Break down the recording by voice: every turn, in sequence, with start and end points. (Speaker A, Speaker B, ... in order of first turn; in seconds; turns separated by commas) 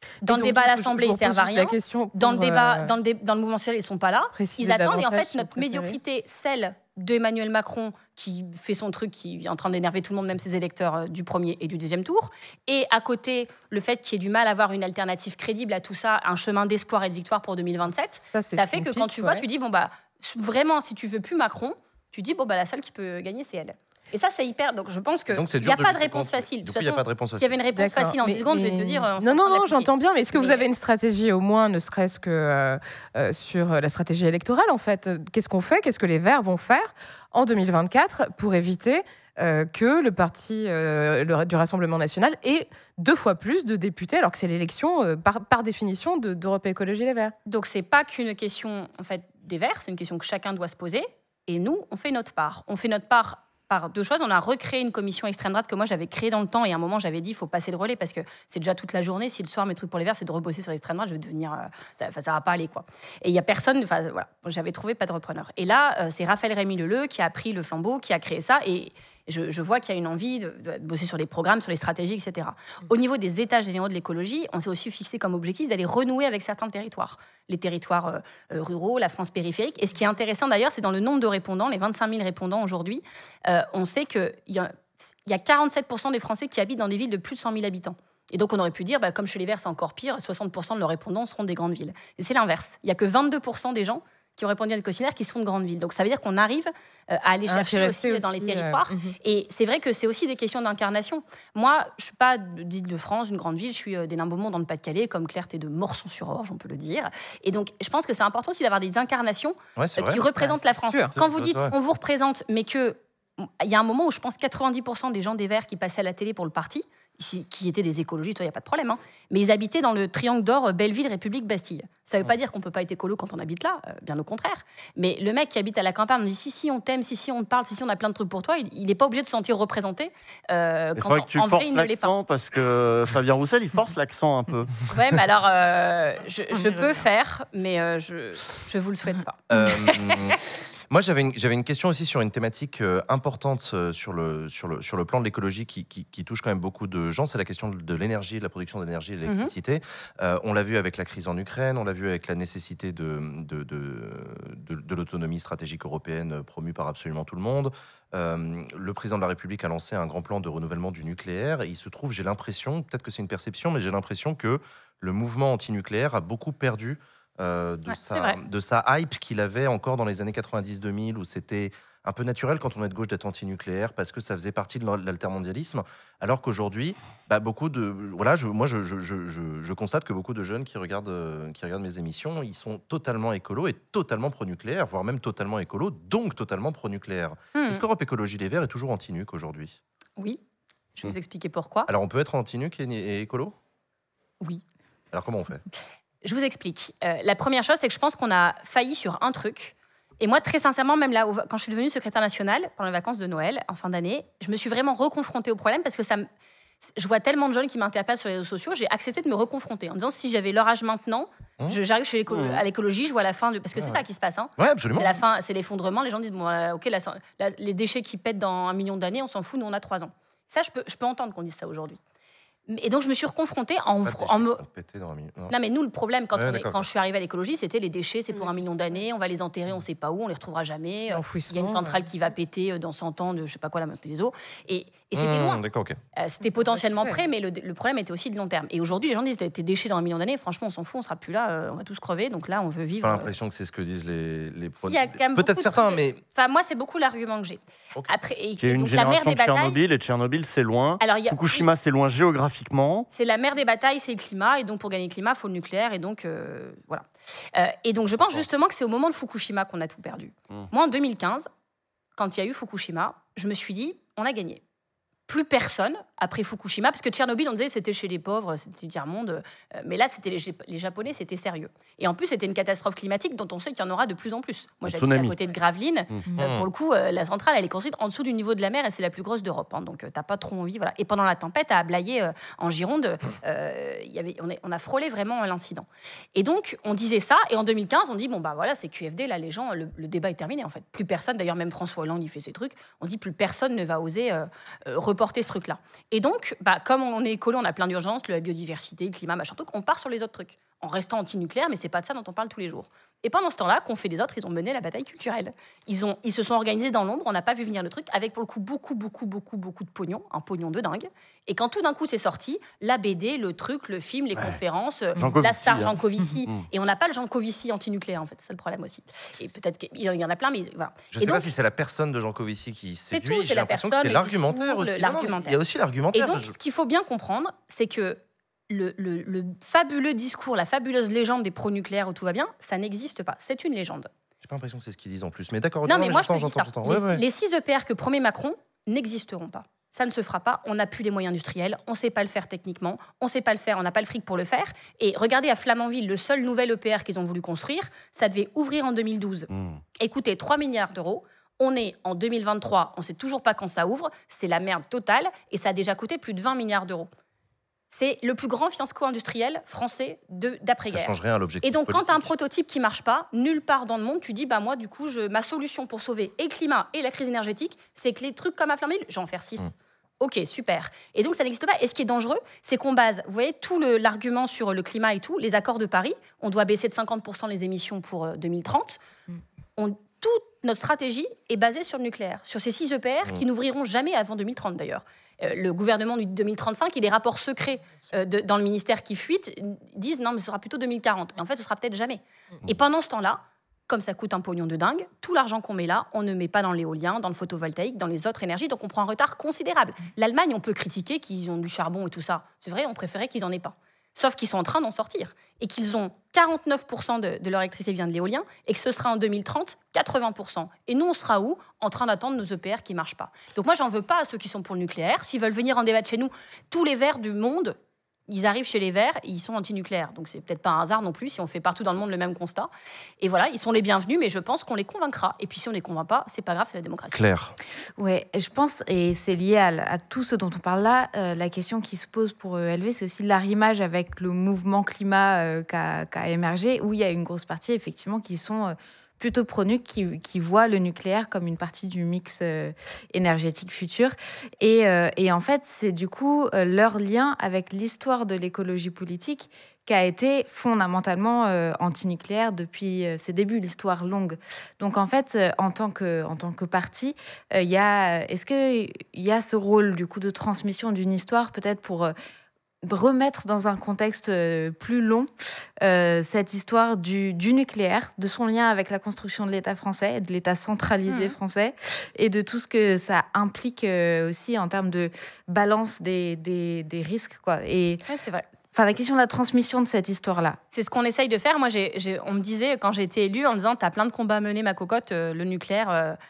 Speaker A: 0.2-2.9, Speaker B: 0.2-30.6, Speaker A: 4.3-6.0, Speaker A: 18.3-19.4, Speaker C: 25.3-27.5, Speaker A: 27.7-47.3, Speaker B: 47.5-132.1, Speaker A: 97.5-99.2, Speaker C: 109.8-110.2, Speaker A: 110.8-111.2, Speaker C: 111.1-111.7, Speaker D: 130.9-134.8, Speaker B: 134.9-140.2, Speaker C: 139.5-189.8, Speaker B: 149.2-149.5, Speaker B: 167.9-168.4, Speaker B: 187.5-187.8, Speaker B: 191.0-191.9, Speaker C: 191.9-193.5, Speaker C: 195.1-195.6, Speaker B: 196.2-206.3, Speaker B: 206.9-222.0, Speaker D: 212.3-212.6, Speaker C: 214.6-215.2, Speaker B: 222.7-224.6, Speaker C: 224.0-225.5, Speaker B: 225.5-235.6, Speaker C: 226.3-226.8, Speaker A: 231.1-231.9, Speaker C: 235.1-236.0, Speaker B: 236.2-243.3, Speaker A: 236.4-237.2, Speaker C: 243.0-246.2, Speaker B: 244.8-249.8, Speaker D: 248.6-253.1, Speaker B: 251.0-251.6, Speaker B: 253.1-261.5, Speaker B: 262.1-264.6, Speaker B: 265.3-321.5, Speaker D: 274.8-275.4, Speaker C: 276.3-276.7, Speaker D: 315.1-315.9, Speaker C: 321.1-326.5, Speaker B: 323.1-325.6, Speaker B: 326.1-334.1, Speaker C: 334.4-337.2, Speaker B: 335.9-357.1, Speaker D: 349.5-349.8, Speaker B: 357.9-379.0, Speaker C: 360.9-362.3, Speaker B: 379.8-417.8, Speaker B: 418.3-427.2, Speaker C: 427.1-427.5, Speaker E: 428.0-462.1, Speaker E: 462.8-465.3, Speaker E: 465.8-478.0, Speaker B: 471.1-471.4, Speaker B: 478.1-478.4, Speaker E: 478.7-480.6, Speaker B: 480.7-486.2